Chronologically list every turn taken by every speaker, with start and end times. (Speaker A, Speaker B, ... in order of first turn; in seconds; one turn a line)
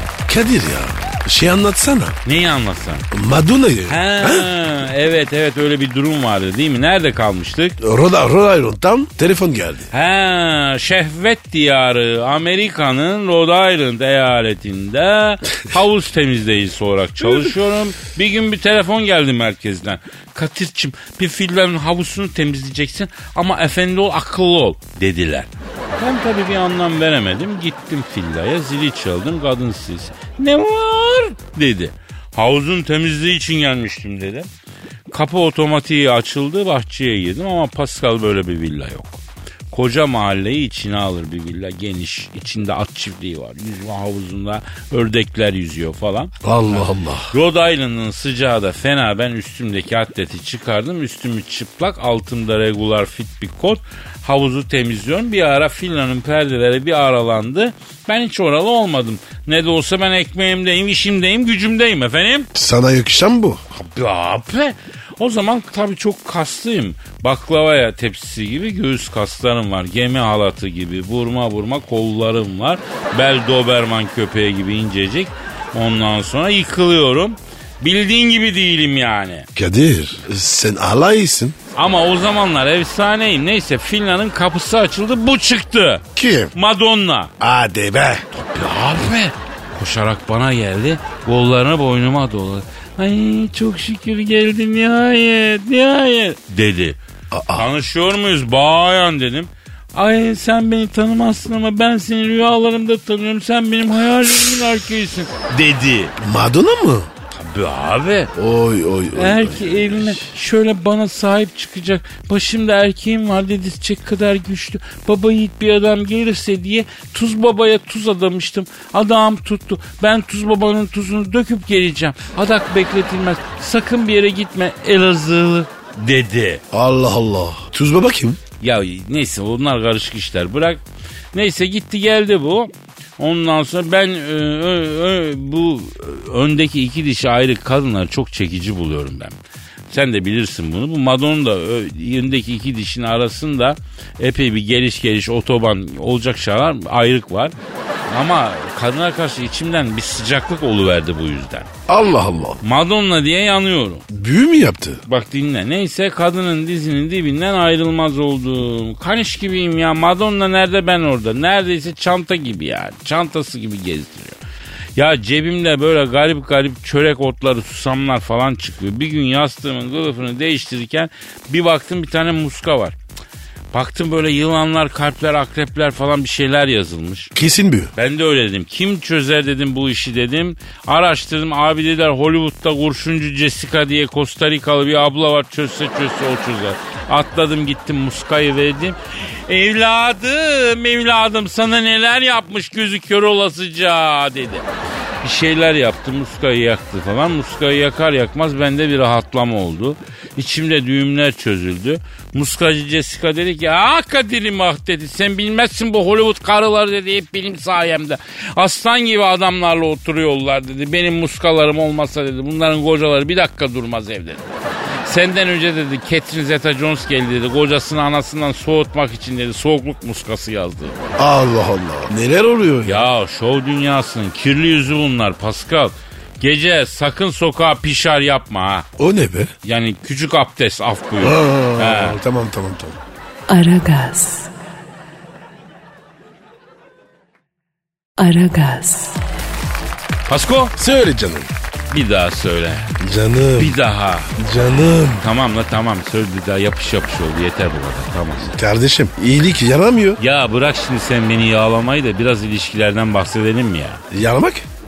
Speaker A: 0.3-2.2
Speaker B: 2.2-3.1
Speaker A: 3.1-4.5
Speaker B: 3.9-7.8
Speaker A: 7.8-9.9
Speaker B: 9.9-34.5
Speaker B: 35.1-39.2
Speaker B: 39.7-62.5
Speaker A: 46.4-47.3
Speaker A: 62.5-63.6
Speaker B: 63.7-79.5
Speaker A: 79.5-81.5
Speaker B: 81.7-87.3
Speaker A: 86.1-86.5
Speaker A: 87.4-88.2
Speaker B: 88.3-97.0
Speaker A: 97.3-97.7
Speaker B: 97.5-106.1
Speaker A: 106.2-107.1
Speaker B: 107.3-108.3
Speaker A: 108.3-110.3
Speaker B: 109.1-126.6
Speaker A: 126.7-128.4
Speaker B: 128.6-130.8
Speaker B: 131.3-139.4
Speaker B: 139.9-147.5
Speaker B: 148.1-151.7
Speaker A: 151.9-152.6
Speaker B: 152.6-154.0
Speaker A: 154.1-155.0
Speaker B: 155.1-164.4
Speaker B: 164.9-172.9
Speaker B: 173.7-177.3
Speaker A: 177.3-177.9
Speaker B: 177.9-194.7
Speaker B: 195.2-214.5
Speaker B: 215.0-221.1
Speaker A: 221.2-223.0
Speaker B: 222.8-228.9
Speaker A: 229.0-229.5
Speaker B: 229.6-232.2
Speaker A: 231.2-233.0
Speaker C: 233.5-234.5
Speaker C: 238.2-239.2
Speaker B: 240.3-240.7
Speaker A: 240.8-241.5
Speaker B: 241.9-242.9
Speaker A: 243.0-243.8
Speaker B: 243.6-244.3
Speaker A: 244.3-245.2
Speaker B: 245.2-248.6
Speaker A: 248.5-250.2
Speaker B: 250.2-254.0
Speaker A: 254.1-254.7